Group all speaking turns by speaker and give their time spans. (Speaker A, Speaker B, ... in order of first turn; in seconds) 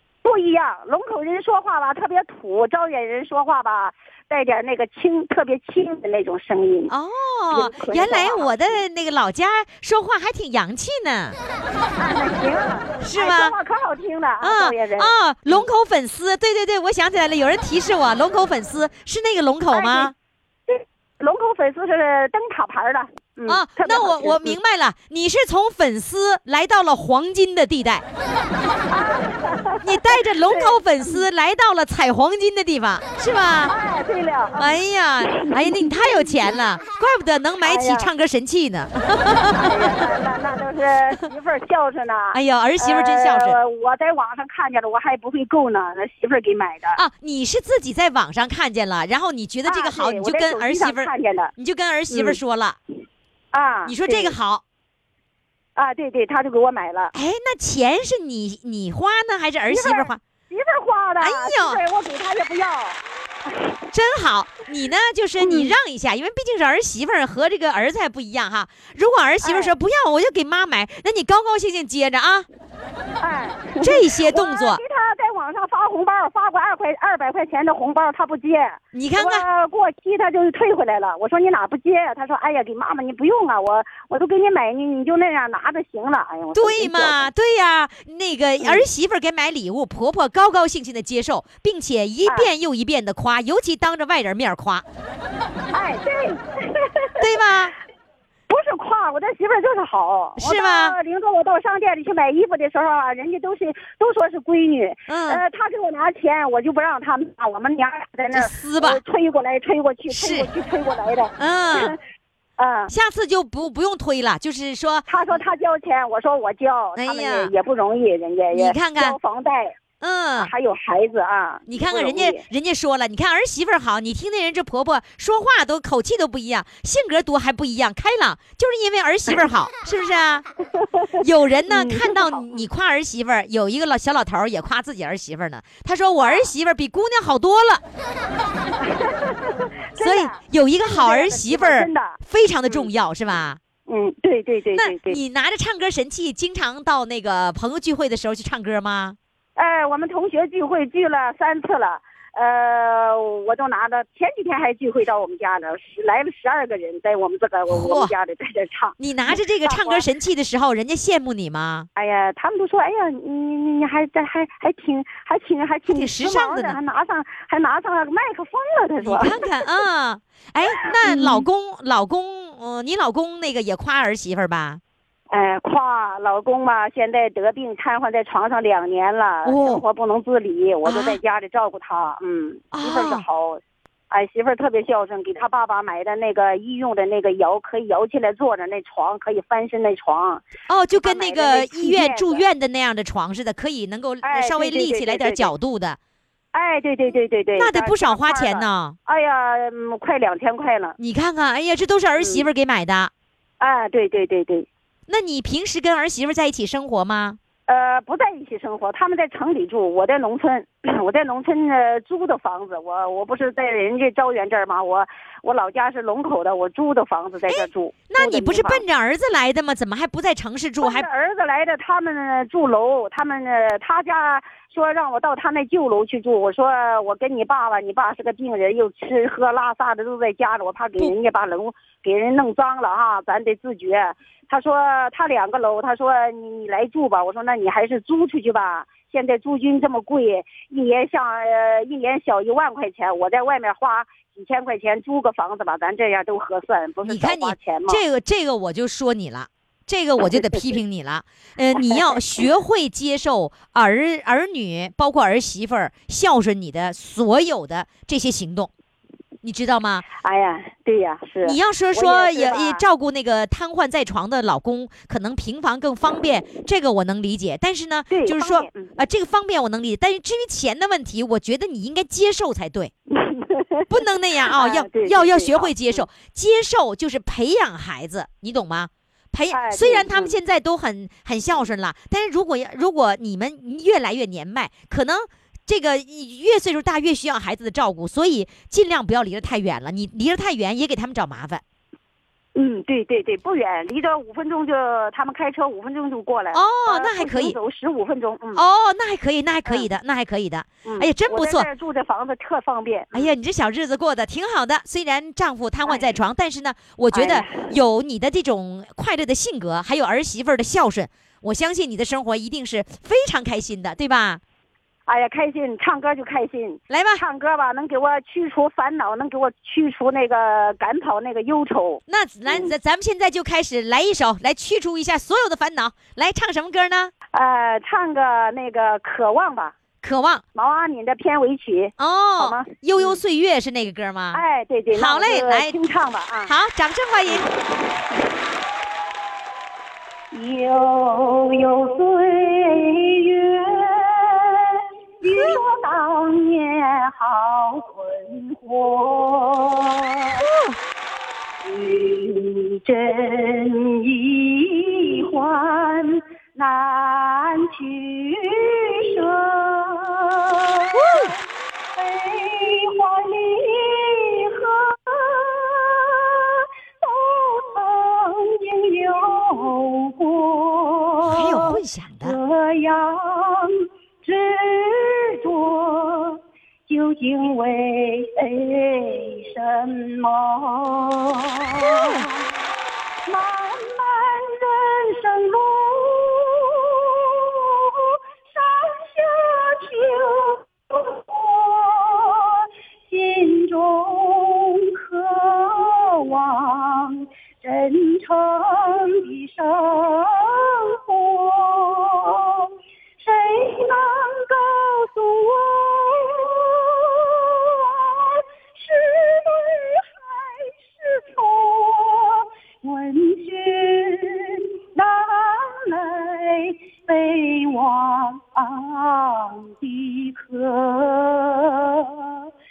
Speaker A: 0.2-6.9, 7.5-8.8, 12.0-15.7, 19.7-20.1, 20.7-24.6, 28.9-31.2, 33.7-36.5, 37.6-38.1, 39.6-47.0, 49.6-51.5, 52.1-52.4, 53.5-54.3, 55.8-57.1, 59.7-63.8, 65.4-65.7, 69.4-69.7, 73.2-87.2, 95.7-97.2, 98.5-112.0, 112.6-112.9, 115.1-119.7, 120.4-122.4, 130.8-132.7, 136.2-136.5, 138.8-142.9, 143.9-145.2, 149.6-160.0, 161.9-169.7, 170.8-171.4, 175.3-190.4, 191.0-192.4, 194.2-195.5, 196.5-201.0, 202.2-202.4, 203.6-204.7, 207.7-218.8, 220.8-248.0, 251.8-252.4, 260.2-262.8, 268.1-268.9, 273.1-273.9, 274.5-276.1, 279.5-280.3, 292.5-298.6, 300.8-303.3, 307.1-307.7, 315.1-322.7, 327.3-329.7, 330.5-333.2, 334.3-336.5, 340.3-350.5, 351.6-361.4, 361.9-382.4, 383.3-422.4
Speaker B: 6.9-11.4, 13.0-13.5, 14.4-20.1, 23.5-28.1, 29.8-33.7, 34.6-40.0, 42.3-43.6, 47.0-52.8, 53.8-54.6, 57.1-60.2, 61.2-61.8, 63.9-72.5, 73.8-74.8, 78.9-79.4, 86.5-94.8, 97.2-97.7, 100.4-100.9, 105.1-105.4, 108.3-109.0, 110.1-110.5, 111.4-112.0, 112.9-115.4, 117.0-117.5, 118.5-119.2, 120.0-120.5, 121.7-130.4, 131.2-137.8, 140.0-143.6, 144.7-149.2, 157.7-158.1, 159.0-161.9, 165.9-166.8, 169.0-174.8, 179.4-179.8, 180.8-181.2, 182.7-183.2, 190.7-196.0, 197.5-199.0, 201.0-203.1, 205.1-207.4, 217.5-221.1, 247.0-258.7, 259.4-260.1, 261.4-272.9, 273.9-291.6, 296.5-297.6, 298.5-301.7, 303.1-314.4, 316.9-317.2, 322.1-327.1, 330.0-330.4, 332.0-334.4, 334.9-335.7, 336.4-337.5, 350.4-350.8, 360.9-361.3, 371.2-372.4, 381.8-382.2